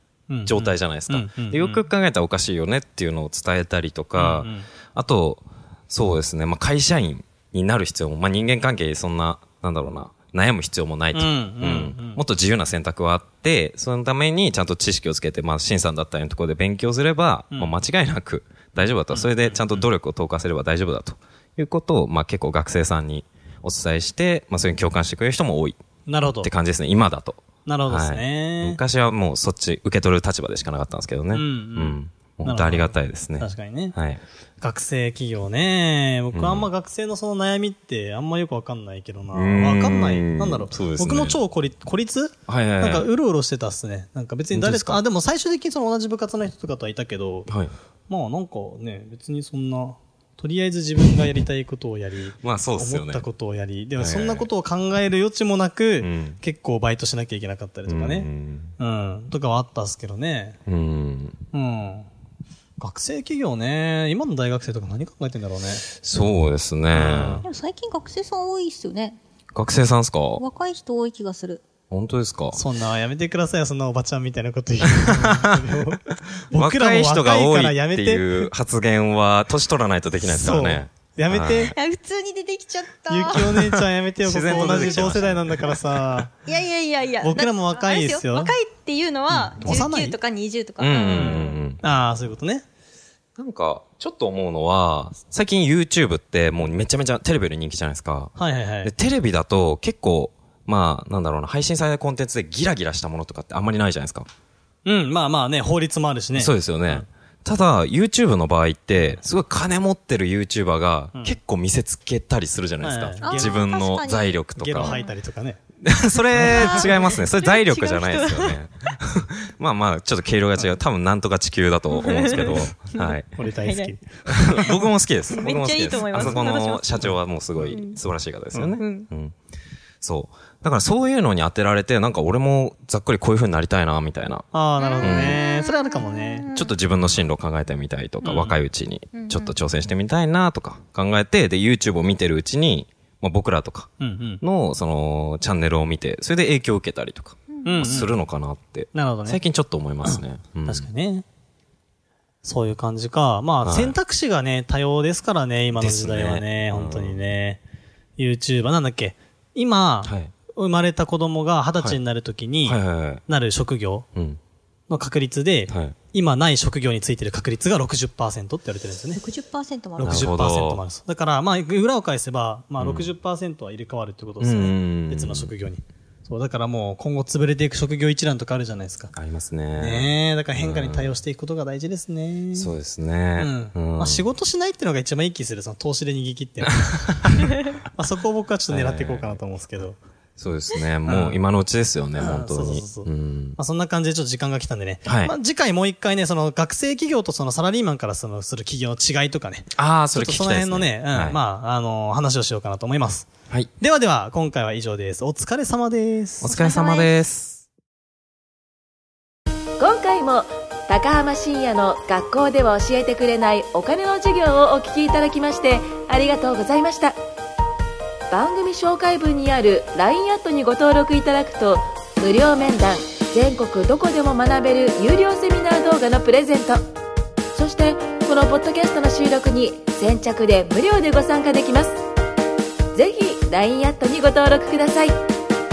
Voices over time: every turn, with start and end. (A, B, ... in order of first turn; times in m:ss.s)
0:00.3-0:01.8 A
0:00.4-0:25.8 B
0:04.2-0:04.7 A
0:11.1-0:12.2 A
0:17.5-0:17.8 A
0:19.1-0:19.9 A
0:26.0-0:26.5 A
0:26.4-0:34.2 B
0:27.6-0:28.8 A
0:31.3-0:33.9 A
0:34.6-0:47.5 A
0:36.3-0:36.7 B
0:39.3-0:41.4 B
0:42.5-0:43.1 B
0:44.5-0:45.0 B
0:47.5-0:47.7 B
0:48.1-1:00.6 A
0:52.4-0:53.2 B
0:54.0-0:54.5 B
0:56.0-0:56.4 B
0:57.9-0:58.7 B
1:00.7-1:01.4 B
1:01.5-1:02.1 A
1:02.8-1:05.8 A
1:06.0-1:07.4 B
1:06.9-1:07.4 A
1:07.4-1:09.2 C
1:09.5-1:10.4 B
1:10.3-1:11.6 C
1:11.9-1:12.6 B
1:12.5-1:18.5 A
1:14.9-1:21.7 B
1:20.2-1:21.7 A
1:21.6-1:23.5 C
1:23.1-1:26.3 A
1:23.3-1:26.2 B
1:24.5-1:24.9 C
1:26.4-1:31.6 C
1:27.2-1:28.5 A
1:29.3-1:30.2 A
1:30.8-1:31.8 B
1:31.1-1:32.6 A
1:33.4-1:38.3 B
1:38.4-1:38.9 A
1:38.8-1:44.3 B
1:44.8-1:47.0 A
1:46.3-1:55.0 B
1:52.8-1:53.6 A
1:53.2-1:55.1 C
1:54.6-1:55.6 A
1:55.8-2:03.3 B
1:56.4-1:56.8 A
1:56.4-1:58.6 C
2:01.9-2:03.9 C
2:03.4-2:04.6 A
2:04.3-2:09.3 B
2:05.3-2:07.2 C
2:06.1-2:06.4 A
2:07.0-2:07.8 A
2:07.7-2:08.0 C
2:08.8-2:09.1 C
2:10.0-2:14.4 B
2:14.5-2:16.5 A
2:14.8-2:16.7 C
2:15.0-2:15.4 B
2:16.5-2:23.9 B
2:18.2-2:18.6 A
2:19.1-2:19.5 C
2:24.0-2:24.4 A
2:24.4-2:30.8 B
2:27.5-2:27.9 C
2:27.6-2:28.2 A
2:28.9-2:29.4 A
2:30.0-2:31.2 A
2:32.4-2:37.6 A
2:33.6-2:33.9 B
2:35.7-2:37.2 B
2:38.2-2:44.1 A
2:40.0-2:40.3 B
2:42.6-2:43.2 B
2:44.9-2:49.2 A
2:45.7-2:46.0 B
2:49.1-2:50.2 C
2:50.0-2:59.1 A
2:50.0-2:50.8 B
2:52.8-2:53.1 B
2:54.4-2:55.5 B
2:59.1-3:01.2 B
2:59.8-3:02.7 A
3:02.5-3:04.3 B
3:03.4-3:10.0 A
3:07.1-3:07.5 B
3:08.7-3:09.4 B
3:10.4-3:13.6 B
3:11.0-3:11.4 A
3:12.2-3:26.5 A
3:15.0-3:15.3 B
3:19.8-3:21.4 B
3:26.4-3:27.6 B
3:26.4-3:27.2 C
3:29.8-3:37.1 D
3:38.3-3:46.8 D
3:47.5-3:52.0 D
3:52.9-3:55.1 D